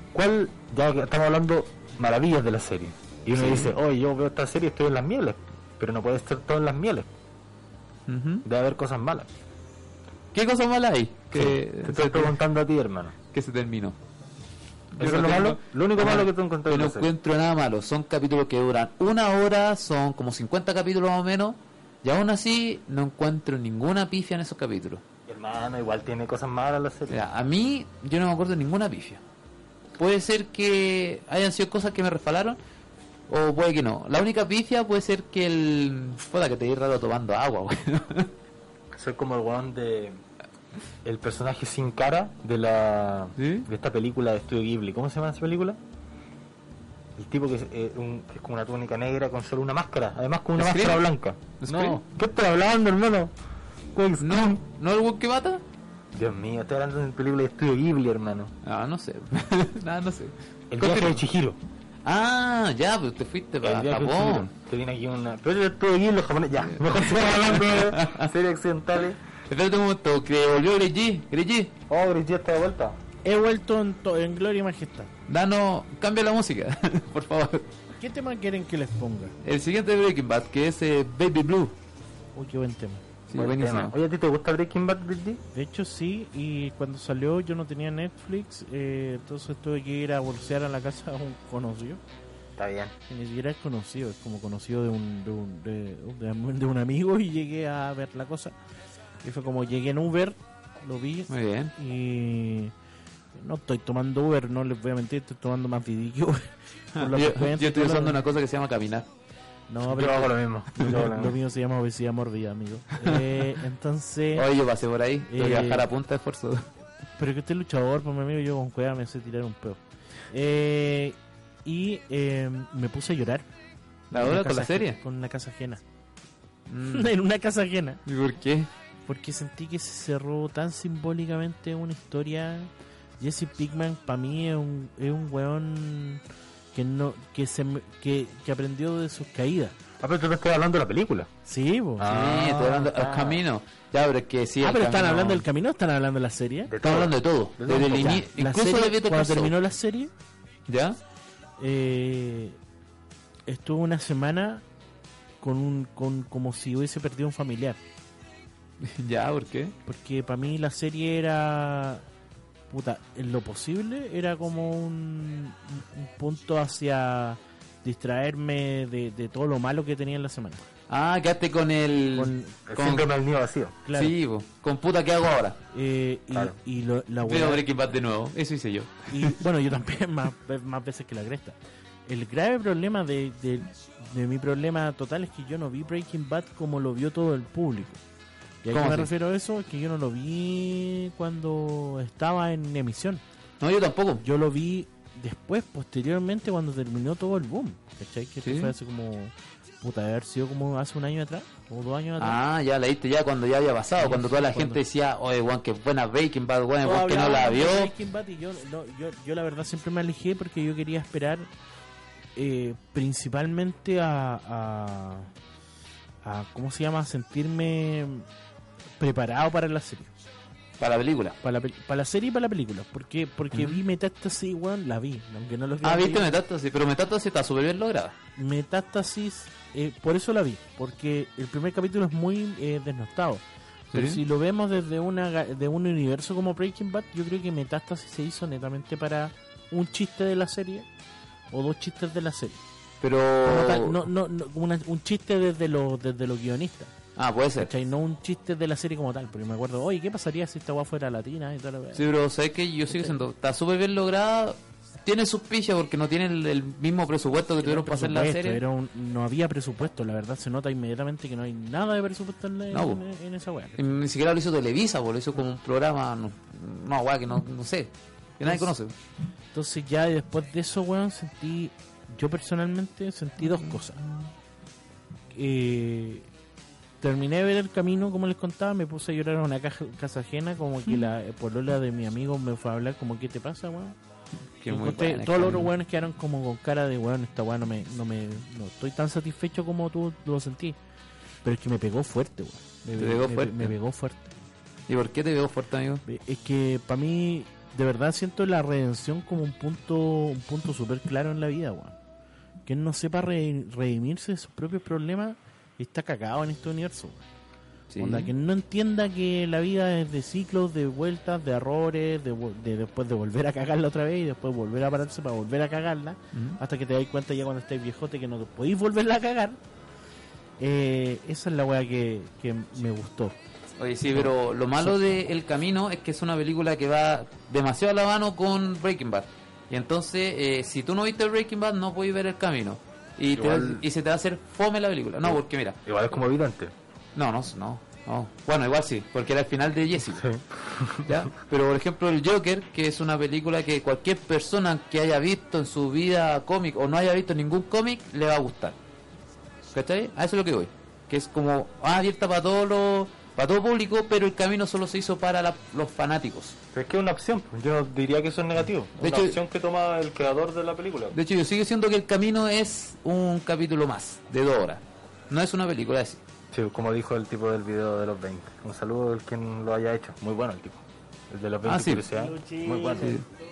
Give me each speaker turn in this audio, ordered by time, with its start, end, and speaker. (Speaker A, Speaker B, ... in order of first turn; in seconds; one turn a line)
Speaker A: 0.1-7.1
Speaker B: 3.3-3.7
Speaker B: 8.1-8.4
Speaker A: 8.4-9.3
Speaker B: 10.3-12.3
Speaker A: 11.3-13.1
Speaker B: 13.3-13.9
Speaker B: 14.9-25.0
Speaker A: 15.0-17.1
Speaker A: 25.3-27.2
Speaker B: 27.1-29.2
Speaker B: 30.0-32.6
Speaker B: 33.3-38.3
Speaker A: 38.9-40.2
Speaker A: 41.0-45.8
Speaker B: 43.4-43.7
Speaker A: 47.1-53.3
Speaker B: 50.6-51.0
Speaker B: 51.6-52.0
Speaker A: 53.9-54.6
Speaker B: 54.2-55.6
Speaker A: 56.1-58.5
Speaker B: 58.6-61.2
Speaker A: 60.7-61.6
Speaker B: 62.0-64.5
Speaker A: 63.6-69.2
Speaker B: 66.6-68.3
Speaker B: 69.5-71.7
Speaker A: 71.9-73.0
Speaker C: 73.2-75.1
Speaker B: 75.3-77.7
Speaker C: 78.0-79.3
Speaker B: 79.4-81.7
Speaker C: 82.3-83.0
Speaker B: 83.3-84.0
Speaker A: 83.3-85.4
Speaker C: 85.5-92.0
Speaker A: 92.6-92.9
Speaker C: 93.1-98.5
Speaker C: 99.2-102.7
Speaker B: 101.3-101.7
Speaker C: 103.3-108.2
Speaker B: 107.0-109.1
Speaker C: 109.7-114.5
Speaker A: 109.8-111.3
Speaker B: 113.0-113.4
Speaker B: 114.3-116.7
Speaker C: 115.3-115.9
Speaker C: 117.2-119.8
Speaker C: 120.3-123.4
Speaker C: 124.1-125.8
Speaker B: 124.1-125.0
Speaker B: 126.7-127.1
Speaker C: 126.9-128.0
Speaker B: 128.1-128.7
Speaker C: 129.1-136.2
Speaker C: 136.7-139.7
Speaker A: 140.0-141.3
Speaker C: 141.4-142.1
Speaker A: 142.0-143.4
Speaker B: 142.1-145.4
Speaker C: 144.6-146.7
Speaker A: 146.7-148.2
Speaker B: 146.8-149.5
Speaker C: 147.9-150.1
Speaker B: 150.7-151.0
Speaker C: 151.6-152.6
Speaker C: 153.5-154.6
Speaker C: 155.4-157.8
Speaker B: 158.8-159.7
Speaker C: 159.8-162.0
Speaker C: 162.7-170.6
Speaker B: 170.9-173.1
Speaker C: 172.2-172.6
Speaker A: 172.7-173.8
Speaker C: 173.8-174.2
Speaker B: 173.9-175.6
Speaker C: 175.7-177.6
Speaker B: 177.2-179.3
Speaker C: 179.1-181.6
Speaker C: 182.1-188.0
Speaker C: 188.6-193.2
Speaker B: 188.7-189.1
Speaker B: 193.6-194.2
Speaker C: 194.2-202.4
Speaker B: 198.4-198.7
Speaker B: 202.2-207.9
Speaker C: 204.0-204.8
Speaker C: 206.8-211.5
Speaker C: 212.3-215.3
Speaker C: 216.2-218.2
Speaker C: 219.0-220.1
Speaker B: 220.8-221.4
Speaker C: 221.4-226.4
Speaker B: 223.5-223.8
Speaker B: 225.8-228.1
Speaker C: 228.4-233.4
Speaker B: 233.9-234.2
Speaker C: 233.9-240.8
Speaker C: 241.5-242.6
Speaker B: 243.0-244.0
Speaker C: 243.4-246.9
Speaker B: 247.2-247.7
Speaker C: 247.6-252.1
Speaker B: 251.9-258.6
Speaker C: 257.6-263.8
Speaker B: 262.7-263.0
Speaker B: 263.8-268.9
Speaker C: 268.4-268.7
Speaker C: 269.5-274.1
Speaker C: 275.3-276.2
Speaker C: 277.0-283.9
Speaker B: 284.6-285.7
Speaker C: 284.7-290.8
Speaker C: 291.4-294.3
Speaker B: 292.9-293.7
Speaker B: 294.9-296.0
Speaker C: 296.1-301.9
Speaker C: 302.6-307.2
Speaker B: 307.9-308.3
Speaker C: 308.0-319.6
Speaker B: 316.3-316.6
Speaker C: 320.6-323.4
Speaker B: 323.8-335.8
Speaker A: 333.4-333.8
Speaker A: 335.2-336.7
Speaker B: 337.1-340.2
Speaker A: 340.1-341.2
Speaker B: 341.0-348.8
Speaker B: 349.7-356.6
Speaker A: 356.7-361.1
Speaker B: 359.0-359.4
Speaker B: 361.1-366.2
Speaker A: 366.5-373.2
Speaker B: 371.6-372.1
Speaker C: 372.1-373.2
Speaker B: 372.9-373.2